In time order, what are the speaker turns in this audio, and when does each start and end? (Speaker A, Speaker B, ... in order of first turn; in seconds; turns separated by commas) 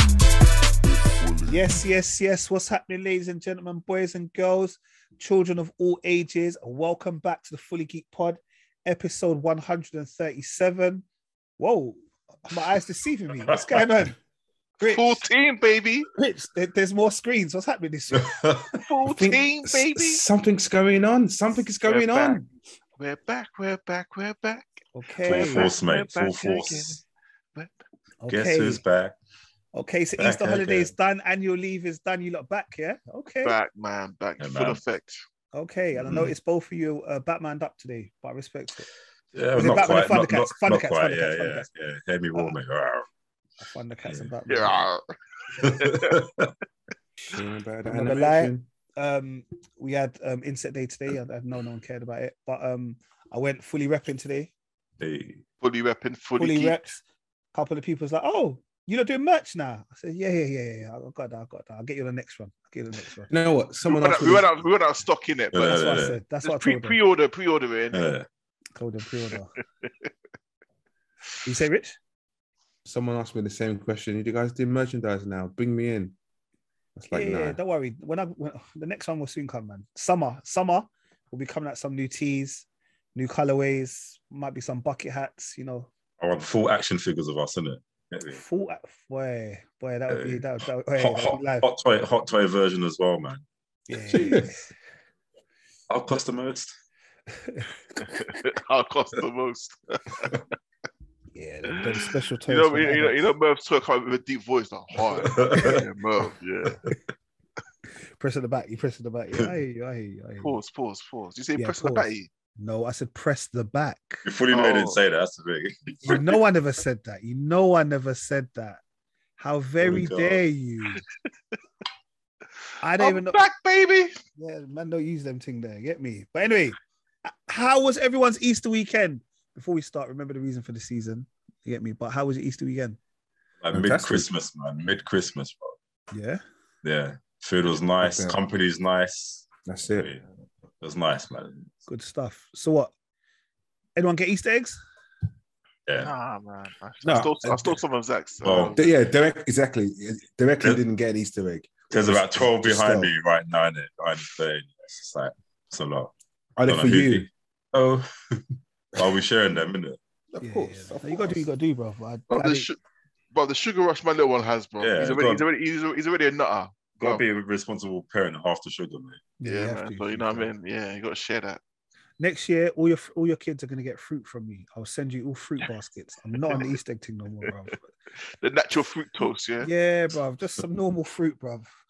Speaker A: 1.4-11.1, Speaker A: 11.6-14.2, Speaker A: 14.8-15.2, Speaker B: 14.8-16.1, Speaker A: 16.1-18.4, Speaker C: 18.1-18.8, Speaker B: 18.7-20.2, Speaker D: 19.0-22.4, Speaker B: 21.8-22.4, Speaker B: 23.0-24.7, Speaker A: 24.9-25.7, Speaker C: 25.2-27.0, Speaker B: 25.2-27.0, Speaker A: 28.2-28.8, Speaker C: 28.3-29.1, Speaker A: 29.7-33.6, Speaker C: 30.2-30.9, Speaker B: 33.4-35.2, Speaker C: 34.4-34.8, Speaker A: 35.5-38.9, Speaker C: 36.0-36.3, Speaker C: 39.3-43.0, Speaker A: 39.5-41.7, Speaker A: 43.6-44.8, Speaker B: 44.5-46.2, Speaker C: 45.5-46.5, Speaker D: 47.3-48.7, Speaker A: 47.9-54.5, Speaker C: 55.0-55.4, Speaker B: 55.6-56.8, Speaker A: 56.4-63.3, Speaker D: 63.3-64.5, Speaker B: 63.8-68.1, Speaker C: 65.5-66.2, Speaker A: 65.6-67.0, Speaker C: 67.9-68.2, Speaker A: 68.7-69.5, Speaker A: 71.4-72.0, Speaker D: 72.8-76.1, Speaker D: 77.0-77.6, Speaker A: 77.1-85.9, Speaker C: 86.2-88.4, Speaker A: 88.3-91.7, Speaker C: 90.1-93.4, Speaker A: 93.9-94.7, Speaker D: 94.0-94.5, Speaker C: 95.9-96.7, Speaker B: 98.0-100.4, Speaker A: 101.3-103.2, Speaker B: 101.8-106.8, Speaker C: 105.1-107.0, Speaker A: 108.2-110.5, Speaker B: 110.4-112.3, Speaker A: 111.6-112.0, Speaker A: 112.6-114.2, Speaker C: 114.2-116.4, Speaker B: 114.5-115.0, Speaker A: 116.0-118.8, Speaker A: 119.4-121.0, Speaker C: 119.8-120.4, Speaker A: 122.8-123.4, Speaker B: 123.0-124.2, Speaker A: 124.4-133.0, Speaker C: 133.6-135.8, Speaker D: 133.7-134.3, Speaker A: 136.1-136.4, Speaker C: 136.8-140.2, Speaker D: 138.0-138.4, Speaker D: 139.7-140.1, Speaker C: 140.8-141.7, Speaker A: 141.9-142.9, Speaker A: 143.9-144.8, Speaker C: 145.9-146.1, Speaker B: 145.9-148.8, Speaker D: 147.0-147.8, Speaker C: 148.4-149.0, Speaker D: 148.7-153.1, Speaker C: 151.9-156.1, Speaker D: 156.6-157.3, Speaker C: 156.6-160.0, Speaker D: 160.3-161.4, Speaker A: 160.4-162.7, Speaker B: 162.3-162.8, Speaker B: 163.3-167.2, Speaker C: 164.8-165.4, Speaker C: 167.0-169.2, Speaker A: 169.4-170.5, Speaker B: 169.4-171.6, Speaker A: 172.2-177.8, Speaker B: 178.4-179.7, Speaker A: 179.6-181.7